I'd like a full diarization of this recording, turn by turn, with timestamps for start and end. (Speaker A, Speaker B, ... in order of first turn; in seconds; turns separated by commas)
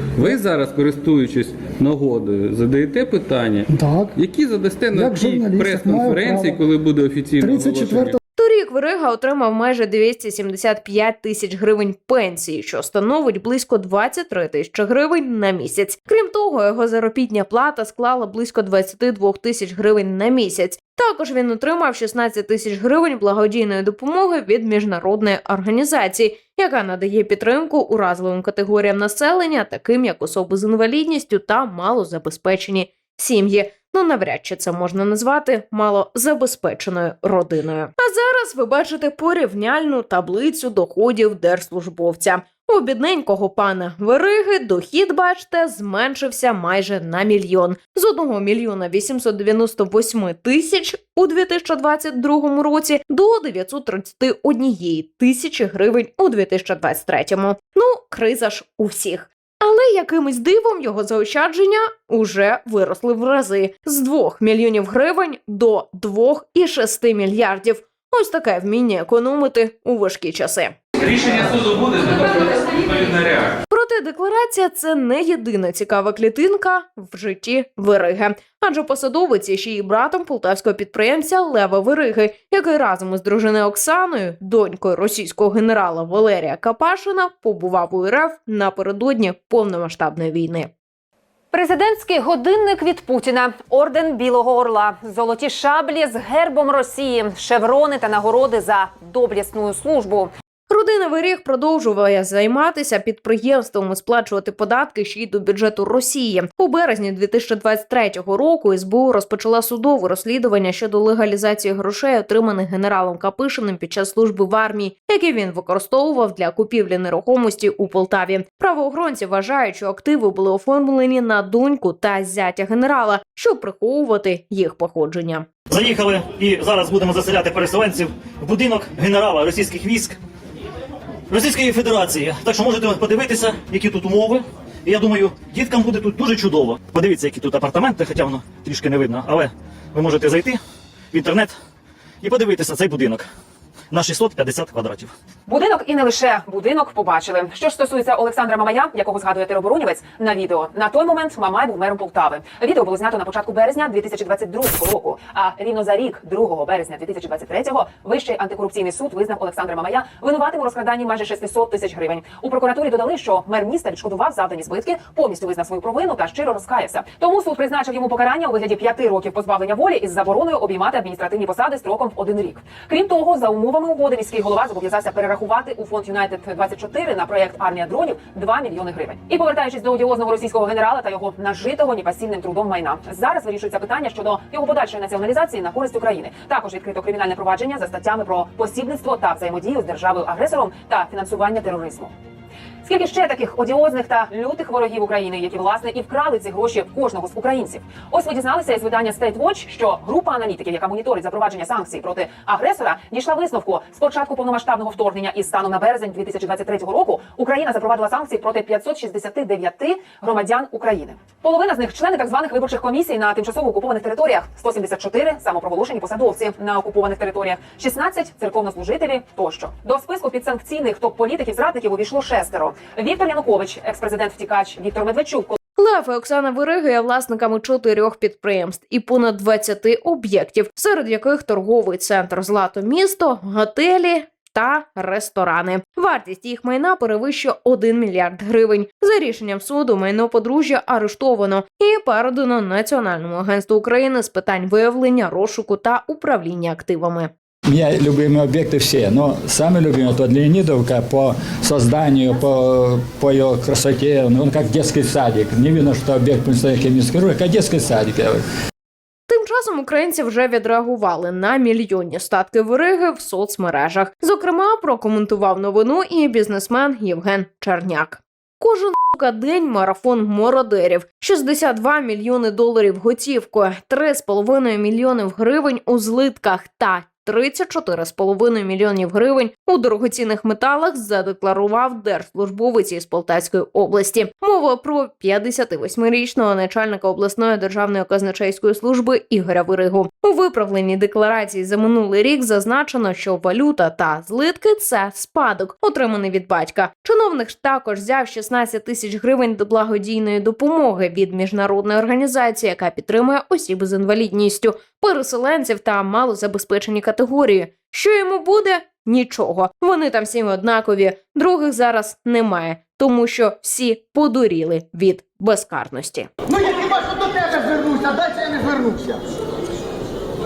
Speaker A: 0.2-8.2, Speaker B: 3.7-4.2, Speaker B: 4.9-6.7, Speaker B: 7.4-8.2, Speaker C: 8.4-70.8, Speaker A: 71.1-73.6, Speaker C: 73.7-90.7, Speaker D: 91.5-100.3, Speaker C: 100.7-125.5, Speaker E: 125.7-130.2, Speaker E: 131.3-140.6, Speaker E: 141.1-141.5, Speaker E: 142.2-143.2, Speaker E: 143.9-145.1, Speaker D: 145.5-192.1, Speaker D: 192.8-225.6, Speaker C: 225.8-247.3, Speaker F: 247.7-258.4, Speaker C: 259.3-316.3, Speaker B: 316.6-319.2